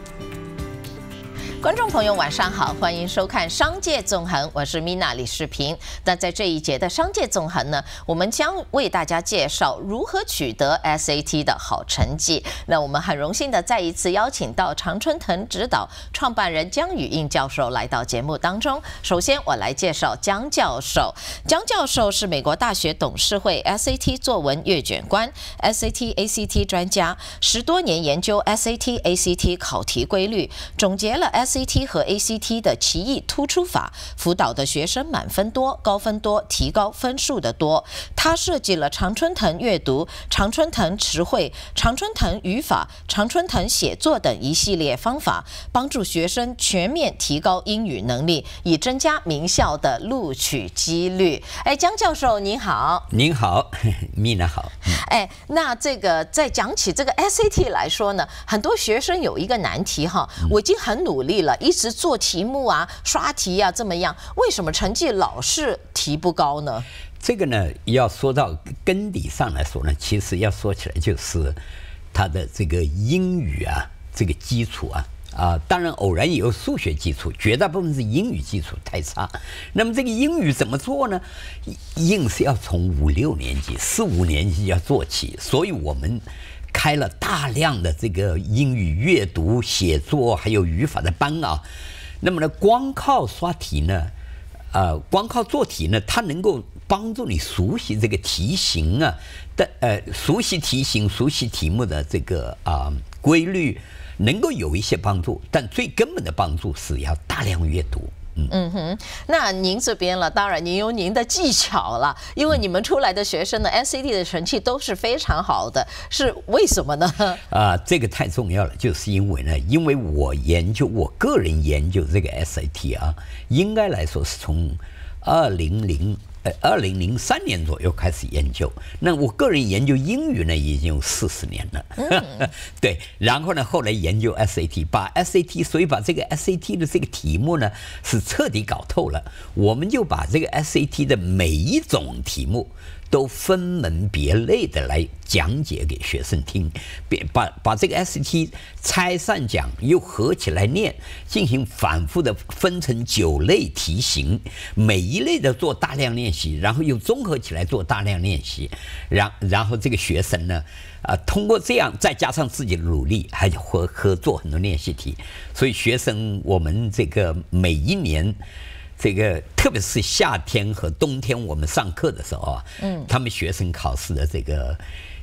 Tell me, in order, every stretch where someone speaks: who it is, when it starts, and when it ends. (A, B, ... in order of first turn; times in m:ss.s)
0:01.6-0:53.1 A
0:53.1-0:55.0 B
0:54.9-1:06.9 A
1:07.2-1:11.6 B
1:12.1-1:31.6 B
1:32.2-1:34.1 B
1:34.7-1:48.5 B
1:48.5-1:57.4 A
1:57.5-2:48.4 B
2:12.0-2:12.5 A
2:49.0-2:54.8 B
2:52.8-2:53.1 A